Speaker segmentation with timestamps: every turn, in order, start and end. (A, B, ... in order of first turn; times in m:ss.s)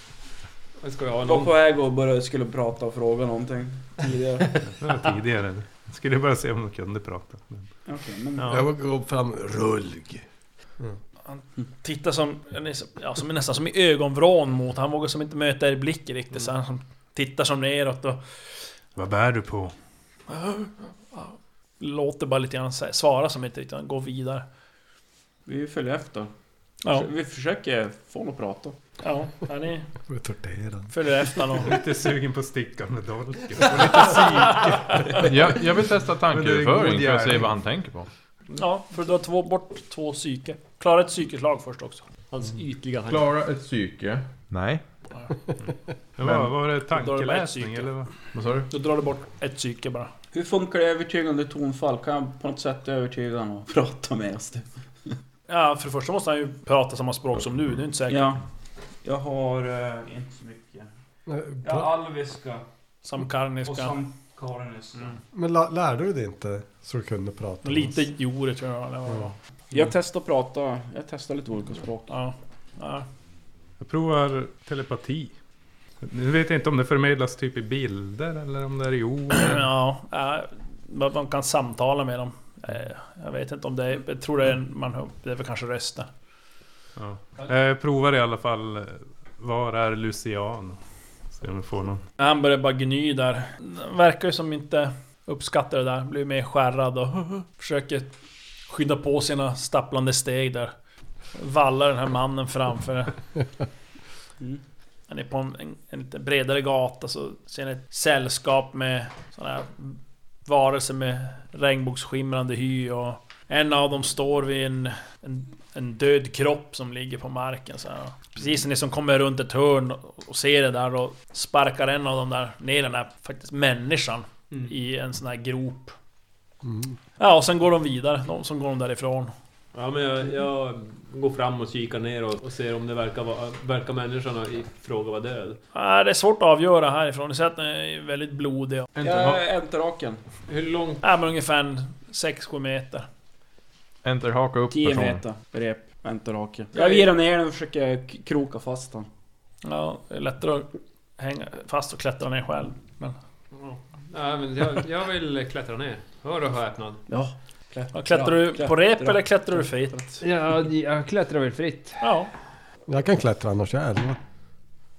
0:00.8-0:01.5 A
0:01.2-0:04.6 B
0:04.8-0:07.7 C
0:07.8-0:08.6 B
0:08.4-0:08.6 C
0:08.4-0:10.2 D
0:11.3-0:18.2 E
0:19.0-0:19.7 C
0:20.3-0:24.4 E
0:25.4-0:26.3 B
0:26.9-0:28.8 B
0:29.0-0:29.9 E
0:30.1-0:30.9 D
0:30.9-0:31.7 E
0:31.5-0:37.5 C
0:35.2-0:38.1 F
0:38.6-0:42.0 E
0:42.3-0:43.2 A
0:43.0-0:44.8 F
0:46.2-0:48.1 C
0:46.9-0:47.9 E
0:48.3-0:48.7 F
0:48.7-0:50.1 E
0:50.3-0:55.1 B
0:55.5-0:58.3 E
0:58.1-0:58.4 B
0:59.0-1:00.9 B
1:01.3-1:01.9 D
1:01.6-1:02.6 B
1:03.0-1:03.9 E
1:03.6-1:05.2 B
1:05.3-1:08.0 D
1:07.6-1:09.3 E
1:09.7-1:12.1 B
1:12.1-1:13.0 E
1:13.8-1:15.3 C
1:16.0-1:19.7 C
1:19.3-1:26.1 E
1:27.0-1:30.8 C
1:31.3-1:32.0 C
1:32.2-1:38.1 E
1:38.7-1:40.7 E
1:41.3-1:43.2 E
1:45.1-2:06.0 E
2:06.6-2:07.0 D
2:07.2-2:09.3 E
2:09.7-2:15.6 A
2:15.7-2:18.9 E
2:19.0-2:19.4 F
2:19.0-2:20.2 B
2:20.5-2:21.0 A
2:21.0-2:23.0 E
2:24.0-2:25.2 F
2:24.7-2:29.1 B
2:29.6-2:33.2 E
2:33.5-2:37.0 A
2:37.1-2:39.2 B
2:37.9-2:40.2 E
2:40.2-2:42.0 A
2:42.0-2:42.3 E
2:42.9-2:44.2 D